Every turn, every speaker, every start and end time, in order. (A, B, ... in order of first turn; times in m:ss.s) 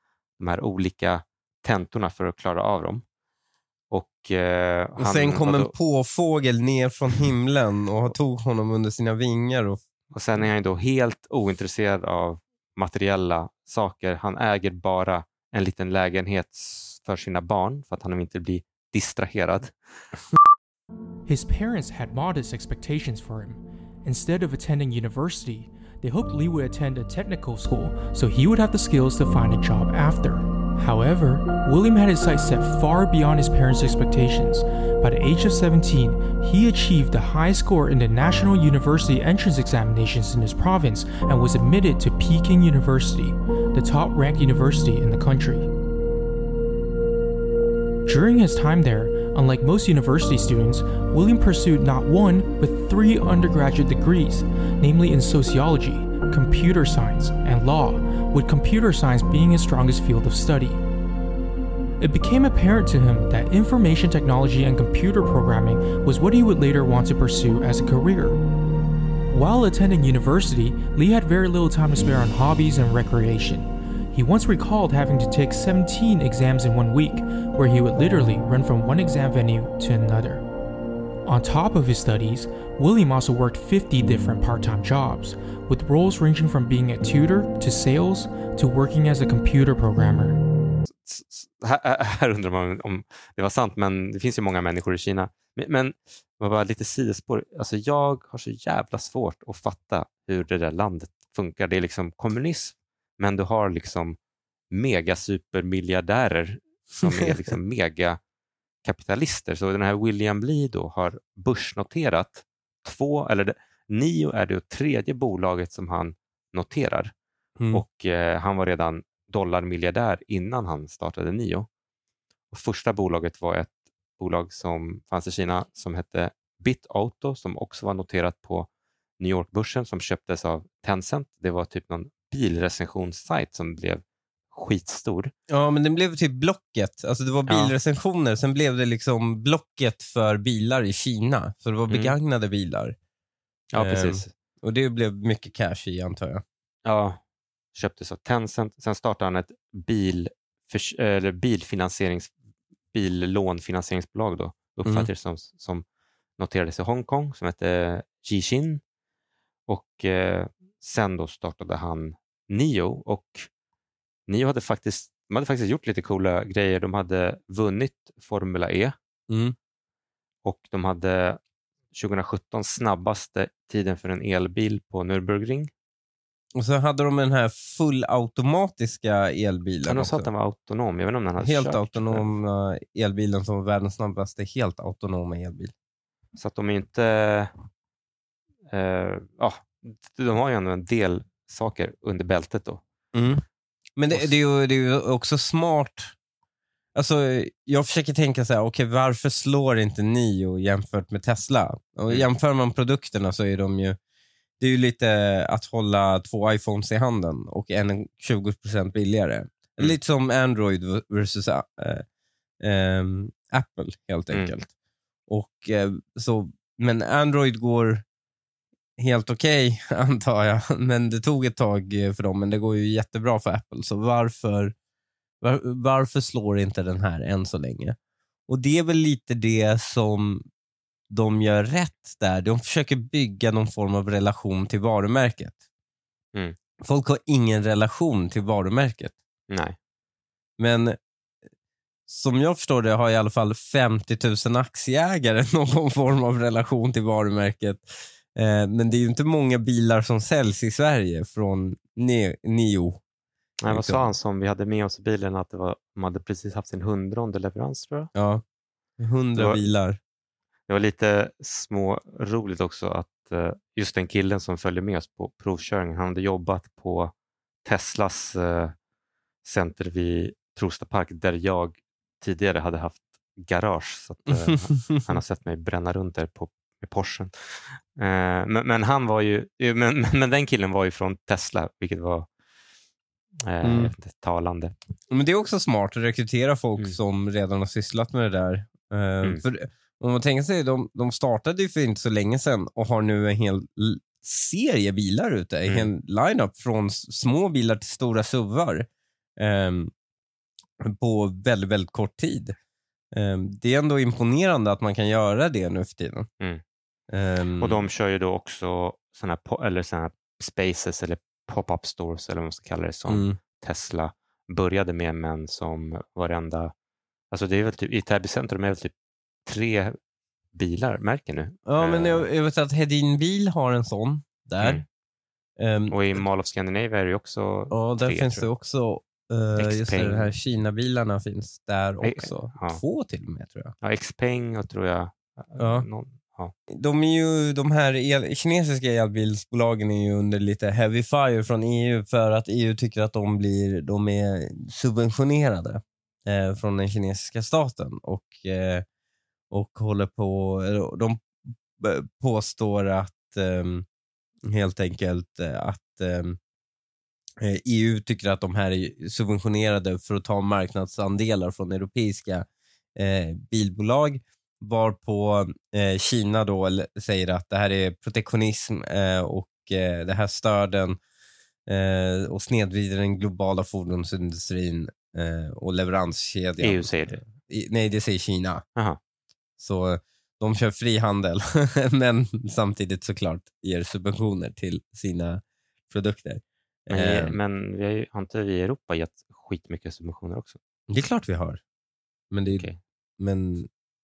0:00.4-0:03.0 A
0:03.9-0:05.7 A
0:05.0-0:09.8 B
0:10.1-0:19.8 A
0:21.3-0:45.7 C
0:48.1-1:00.8 C
1:02.0-1:08.4 C
1:09.3-1:20.4 C
1:21.3-1:30.4 C
1:30.8-1:44.2 A
1:44.7-1:48.2 A
1:48.8-1:57.1 A
1:57.7-2:01.7 A
2:02.5-2:15.3 A
2:15.5-2:23.0 B
2:17.5-2:17.7 A
2:21.9-2:22.2 A
2:23.7-2:24.3 A
2:23.8-2:26.4 B
2:26.8-2:27.2 A
2:27.8-2:32.3 A
2:32.9-2:35.8 A
2:36.4-2:38.8 A
2:39.7-2:43.5 A
2:44.3-2:49.0 A
2:49.3-2:49.6 B
2:50.4-2:51.4 A
2:51.9-2:55.7 A
2:56.6-3:00.3 B
2:59.8-3:02.3 A
3:01.4-3:05.7 B
3:06.4-3:07.5 A
3:08.7-3:12.8 A
3:13.1-3:13.4 B
3:14.0-3:16.2 B
3:17.0-3:24.0 B
3:24.6-3:32.0 B
3:32.6-3:34.7 B
3:35.3-3:38.0 B
3:39.0-3:44.7 B
3:45.4-3:48.0 B
3:48.5-3:50.4 B
3:51.1-3:55.6 B
3:56.8-3:59.2 B
3:59.5-3:59.8 A
4:00.6-4:01.0 B
4:02.1-4:13.0 B
4:13.6-4:18.1 A
4:13.7-4:14.1 B
4:18.1-4:18.4 B
4:19.0-4:20.0 B
4:19.4-4:19.7 A
4:20.7-4:27.1 A
4:27.6-4:28.8 A
4:29.4-4:42.3 A
4:34.7-4:35.0 B
4:43.5-4:44.7 A
4:43.6-4:43.9 B
4:45.1-4:59.9 B
4:55.7-4:55.9 A
5:00.8-5:02.6 B
5:03.1-5:06.3 B
5:07.1-5:07.8 B
5:07.6-5:16.7 A
5:13.1-5:13.4 B
5:17.3-5:18.9 A
5:19.4-5:20.0 A
5:20.5-5:22.3 A
5:21.7-5:24.8 B
5:24.6-5:24.8 A
5:25.6-5:26.2 B
5:25.9-5:28.5 A
5:27.7-5:33.7 B
5:29.6-5:30.3 A
5:32.0-5:32.8 A
5:33.8-5:36.5 A
5:35.6-5:35.9 B
5:36.7-5:48.8 B
5:49.5-5:53.8 B
5:54.5-5:56.4 B
5:57.4-6:11.0 B
6:11.7-6:18.6 B
6:16.6-6:17.2 A
6:19.6-6:27.4 B
6:26.9-6:30.6 A
6:30.9-6:31.6 B
6:32.3-6:32.7 B
6:32.5-6:32.8 A
6:33.2-6:33.7 B